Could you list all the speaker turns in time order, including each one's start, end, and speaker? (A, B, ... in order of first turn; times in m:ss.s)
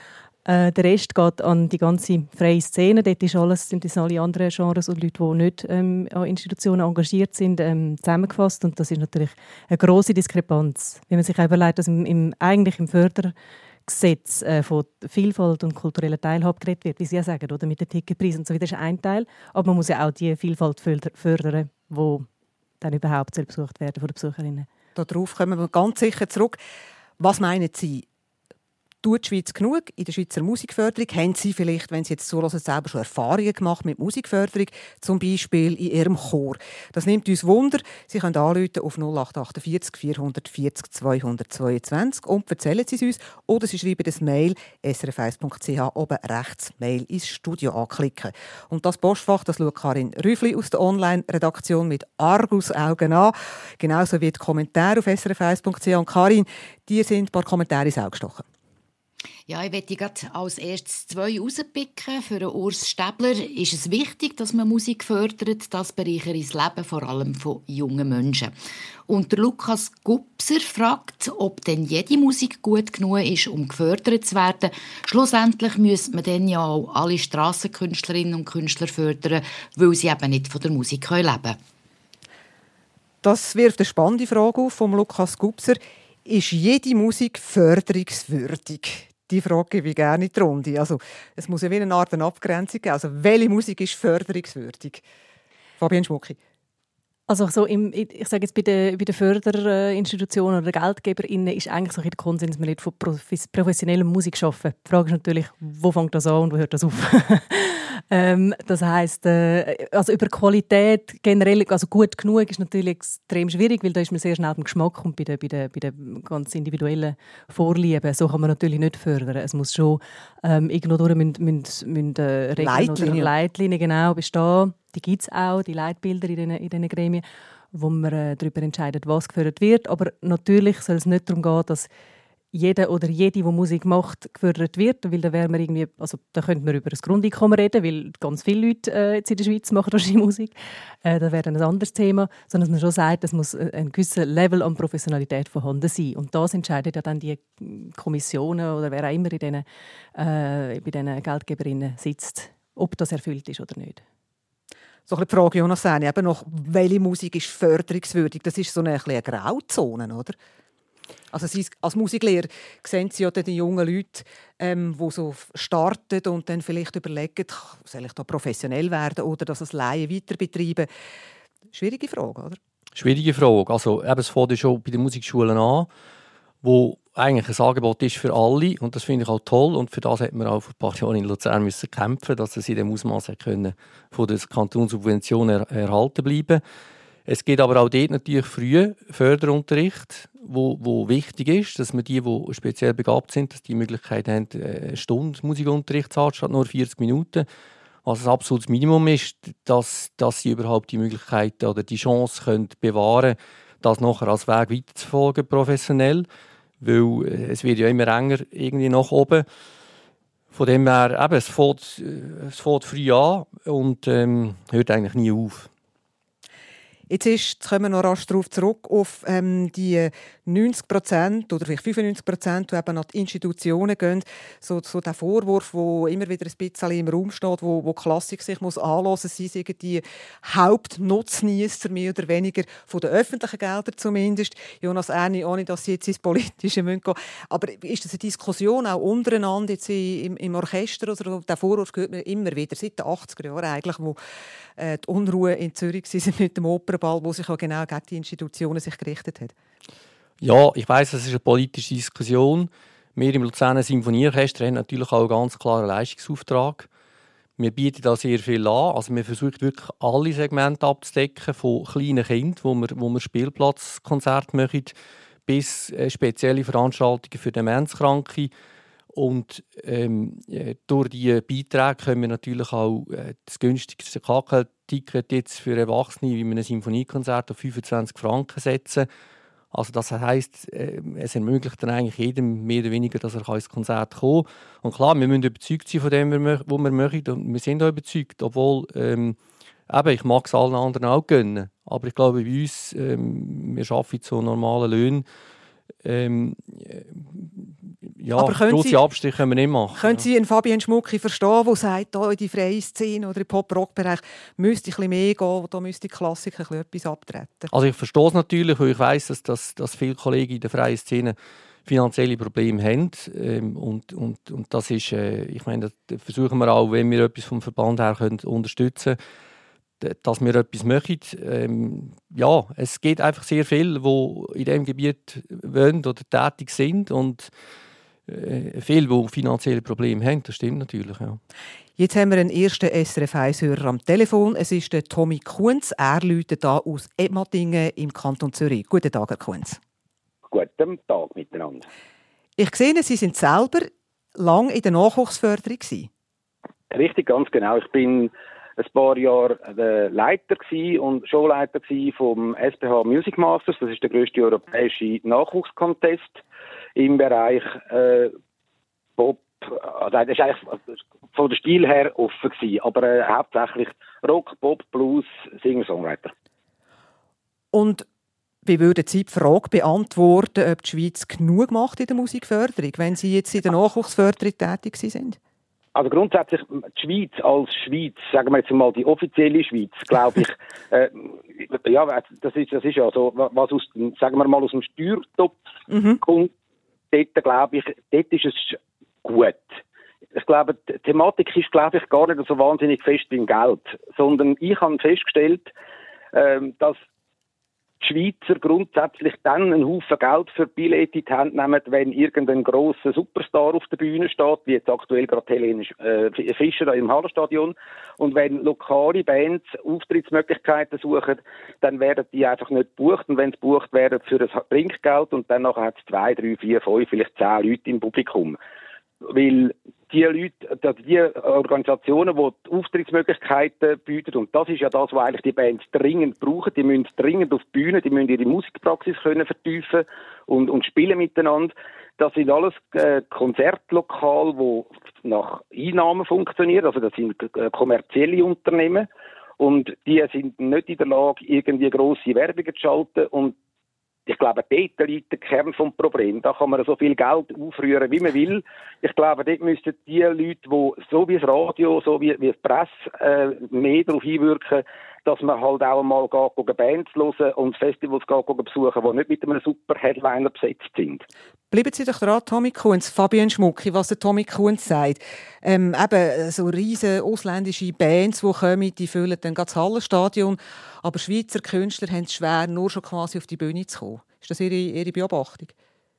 0:00.4-0:13.3 A
0:13.9-0:22.2 A
0:22.8-0:24.7 A
0:25.0-0:26.6 B
0:27.2-0:28.0 B
0:29.0-0:58.4 B
0:59.5-1:08.5 C
1:09.1-1:21.6 C
1:23.2-1:35.0 B
1:35.8-1:36.4 B
1:37.3-2:11.9 A
2:02.6-2:03.3 B
2:12.5-2:29.6 A
2:30.2-2:34.0 A
2:35.1-2:40.4 B
2:41.3-2:50.9 B
2:51.7-2:52.6 B
2:53.0-2:55.9 D
2:56.6-3:06.6 D
3:07.2-3:17.5 D
3:18.0-3:26.3 D
3:26.8-3:29.4 D
3:30.5-3:35.7 D
3:37.1-4:04.2 B
4:04.8-4:09.5 B
4:10.4-4:16.9 D
4:17.6-4:24.9 D
4:25.5-4:28.5 D
4:29.1-4:39.1 D
4:39.7-4:49.4 D
4:49.9-4:55.2 D
4:56.0-5:00.2 D
4:58.4-4:59.0 B
4:59.9-5:07.7 B
5:07.7-5:19.2 D
5:20.0-5:27.5 D
5:28.3-5:31.4 D
5:32.0-5:39.8 B
5:40.5-5:41.8 E
5:42.6-5:46.1 B
5:46.9-5:56.4 E
5:57.0-5:58.3 E
5:59.2-6:00.8 E
6:01.3-6:06.3 E
6:07.7-6:08.0 B
6:08.6-6:15.4 B
6:15.9-6:25.6 E
6:25.9-6:26.2 B
6:26.2-6:26.5 E
6:27.1-6:29.8 E
6:30.3-6:35.7 E
6:36.3-6:37.0 E
6:38.0-6:58.6 E
6:59.2-7:19.1 E
7:19.6-7:23.5 E
7:24.3-7:41.2 E
7:41.7-7:55.7 B